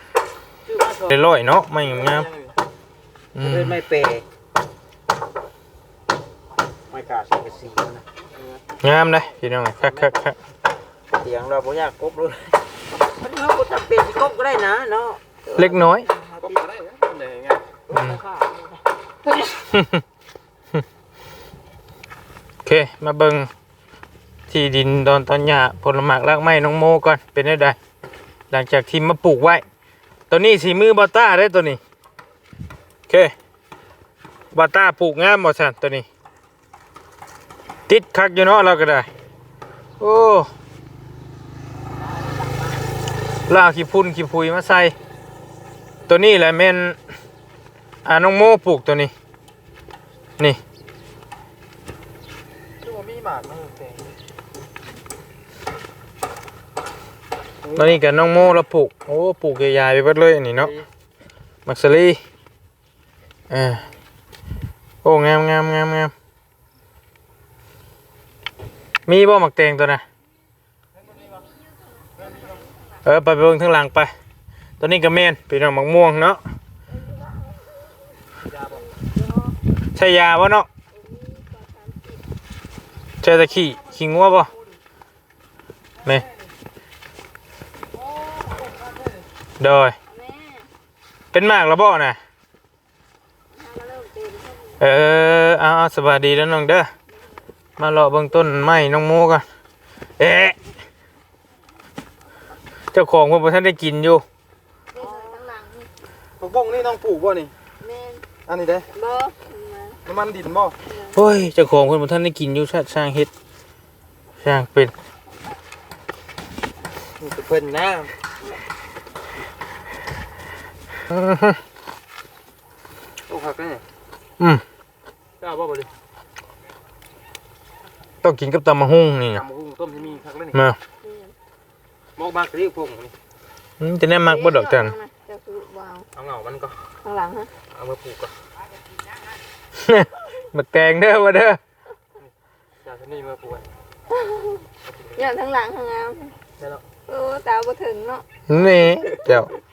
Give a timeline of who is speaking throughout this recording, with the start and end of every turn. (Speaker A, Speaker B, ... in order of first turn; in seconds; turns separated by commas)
Speaker A: 0.6-1.2, Speaker B: 1.1-2.3, Speaker A: 1.7-2.5, Speaker B: 3.3-3.8, Speaker C: 3.4-4.2, Speaker C: 6.9-8.0, Speaker A: 8.3-8.6, Speaker B: 8.8-10.3, Speaker A: 9.8-10.1, Speaker C: 11.1-16.6, Speaker B: 15.6-16.1, Speaker A: 16.4-17.8, Speaker C: 17.9-18.6, Speaker B: 17.9-18.2, Speaker B: 19.6-20.0, Speaker B: 22.6-23.5, Speaker B: 24.5-27.8, Speaker B: 28.5-29.6, Speaker B: 30.3-31.8, Speaker B: 33.1-33.3, Speaker B: 34.5-36.0, Speaker B: 37.9-39.1, Speaker B: 40.0-40.5, Speaker B: 43.5-44.9, Speaker B: 46.1-47.0, Speaker B: 48.0-49.1, Speaker A: 52.8-54.1, Speaker A: 57.6-57.9, Speaker B: 57.7-60.7, Speaker A: 60.6-60.9, Speaker B: 61.6-62.2, Speaker B: 63.5-63.8, Speaker B: 65.0-66.1, Speaker B: 69.1-70.0, Speaker A: 71.1-71.4, Speaker A: 72.2-72.5, Speaker B: 73.0-74.1, Speaker B: 74.8-76.4, Speaker A: 78.5-78.8, Speaker B: 79.9-80.7, Speaker D: 80.9-82.2, Speaker B: 83.2-84.5, Speaker B: 89.6-89.9, Speaker D: 90.1-90.7, Speaker B: 91.3-92.2, Speaker D: 93.5-94.8, Speaker B: 94.8-96.9, Speaker B: 97.8-99.4, Speaker B: 100.2-100.6, Speaker B: 102.9-104.2, Speaker D: 104.9-105.9, Speaker A: 106.4-107.5, Speaker D: 107.8-108.2, Speaker A: 108.5-108.9, Speaker D: 108.9-110.0, Speaker A: 110.0-110.7, Speaker D: 110.8-111.2, Speaker B: 111.1-113.3, Speaker B: 114.4-114.9, Speaker A: 117.2-118.1, Speaker B: 121.1-121.6, Speaker A: 123.2-123.8, Speaker B: 124.4-124.6, Speaker A: 125.4-125.9, Speaker B: 128.2-129.4, Speaker A: 129.3-130.6, Speaker D: 131.0-131.3, Speaker A: 132.2-133.1, Speaker B: 133.8-134.9, Speaker D: 134.2-136.1, Speaker A: 136.1-136.7, Speaker D: 137.0-137.5, Speaker A: 137.7-138.3, Speaker B: 139.8-141.6, Speaker A: 142.8-143.7, Speaker D: 144.1-144.6, Speaker A: 144.8-145.2, Speaker D: 145.2-146.3, Speaker D: 147.1-148.2, Speaker B: 148.5-149.5